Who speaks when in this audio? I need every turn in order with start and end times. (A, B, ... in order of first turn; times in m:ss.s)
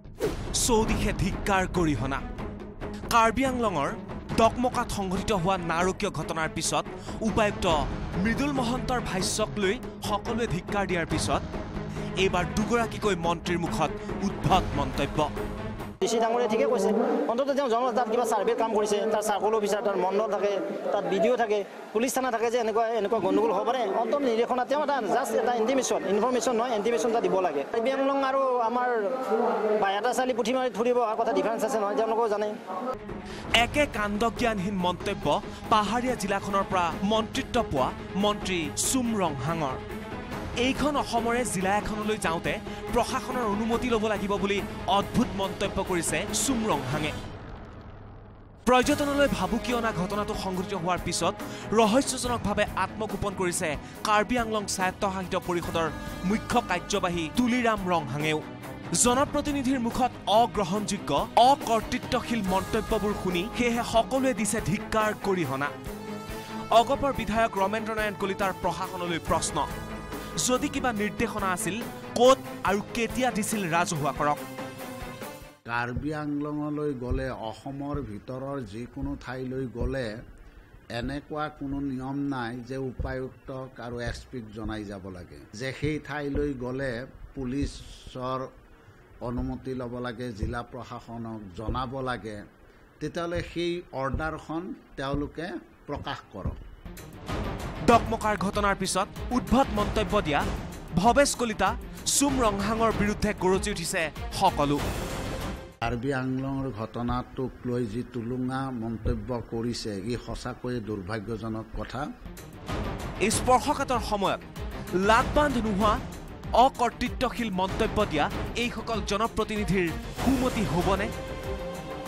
0:00.5-0:02.2 A
0:03.1-0:11.4 A
0:12.2-0:15.3 A
0:16.0-0:32.6 B
0:33.6-0:39.8 A
0:40.6-0:47.1 A
0:48.7-0:58.4 A
0:59.0-1:05.7 A
1:06.7-1:09.7 A
1:10.4-1:14.4 A
1:15.7-1:20.1 C
1:21.0-1:28.5 C
1:29.2-1:32.4 C
1:33.0-1:36.6 C
1:37.9-1:40.4 A
1:41.0-1:44.8 A
1:45.8-1:52.1 C
1:53.2-1:54.4 A
1:55.0-1:56.0 A
1:56.6-2:01.1 A